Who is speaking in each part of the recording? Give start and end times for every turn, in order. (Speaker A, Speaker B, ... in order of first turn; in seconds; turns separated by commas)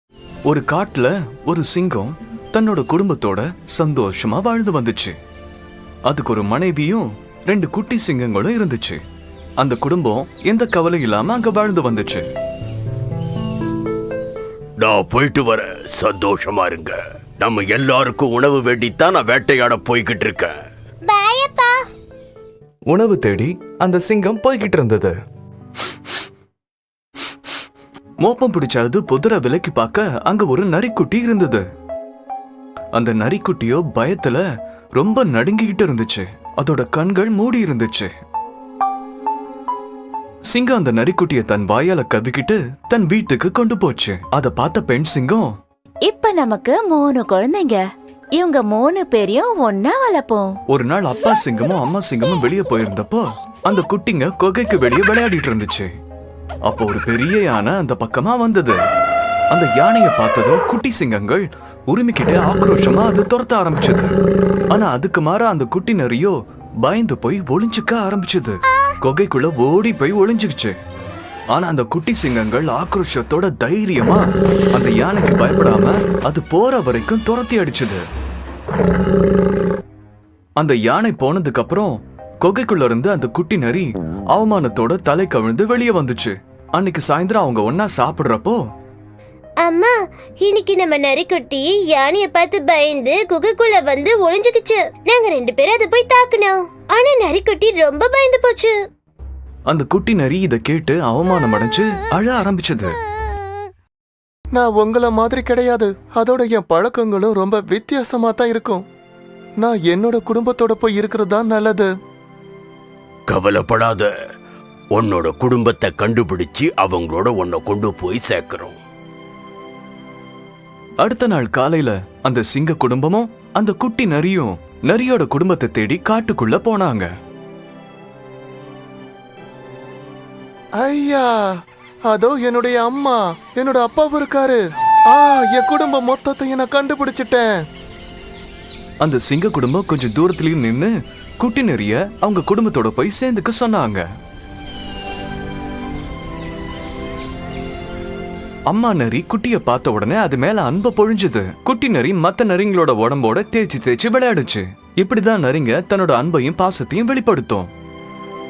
Speaker A: 0.5-5.2, Speaker A: 6.1-9.0, Speaker A: 9.6-12.2, Speaker B: 14.8-20.5, Speaker C: 21.1-21.7, Speaker A: 22.9-25.1, Speaker A: 28.2-31.6, Speaker A: 32.9-34.4, Speaker A: 35.0-38.1, Speaker A: 40.5-45.5, Speaker D: 46.0-47.8, Speaker D: 48.4-50.5, Speaker A: 50.7-55.9, Speaker A: 56.6-58.8, Speaker A: 59.5-64.1, Speaker A: 64.7-70.8, Speaker A: 71.5-78.0, Speaker A: 80.6-88.6, Speaker C: 89.6-98.7, Speaker A: 99.7-103.0, Speaker E: 104.5-108.8, Speaker E: 109.6-111.9, Speaker B: 113.3-114.1, Speaker B: 114.9-118.8, Speaker A: 121.0-127.1, Speaker E: 130.8-131.3, Speaker E: 132.1-134.6, Speaker E: 135.1-137.5, Speaker A: 139.0-144.0, Speaker A: 148.7-157.7